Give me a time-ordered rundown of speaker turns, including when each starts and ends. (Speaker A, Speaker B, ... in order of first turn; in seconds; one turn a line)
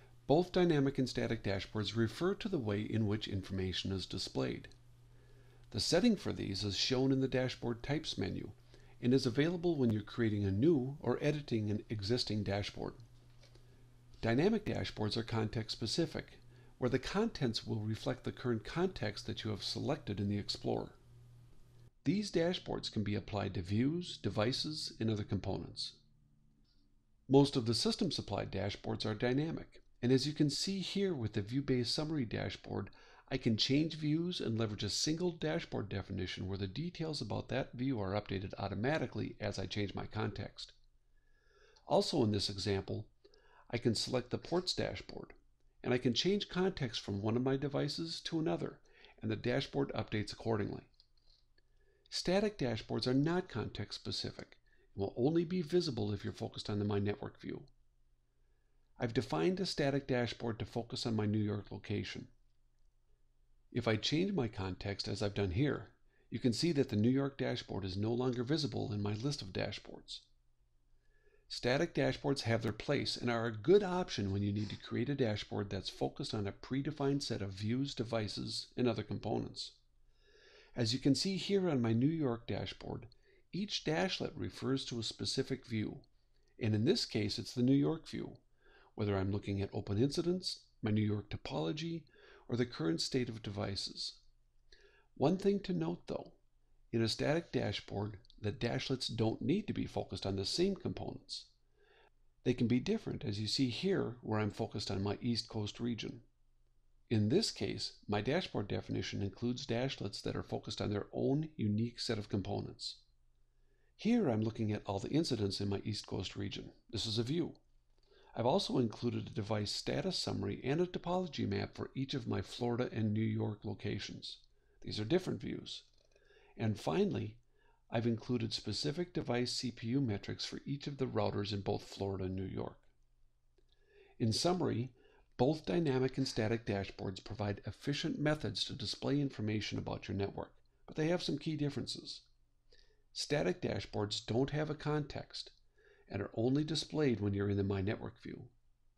Speaker A: 0.3-4.7
Speaker A: 5.7-13.0
Speaker A: 14.2-21.0
Speaker A: 22.0-26.0
Speaker A: 27.3-40.8
Speaker A: 41.9-43.1
Speaker A: 43.7-50.9
Speaker A: 52.1-57.7
Speaker A: 59.0-62.3
Speaker A: 63.7-70.3
Speaker A: 71.5-79.8
Speaker A: 80.7-86.0
Speaker A: 86.6-88.4
Speaker A: 89.0-94.2
Speaker A: 95.2-96.4
Speaker A: 96.9-101.5
Speaker A: 102.4-106.2
Speaker A: 107.1-113.0
Speaker A: 114.0-117.6
Speaker A: 118.3-125.9
Speaker A: 126.5-132.9
Speaker A: 134.2-142.2
Speaker A: 143.1-145.6
Speaker A: 146.1-148.5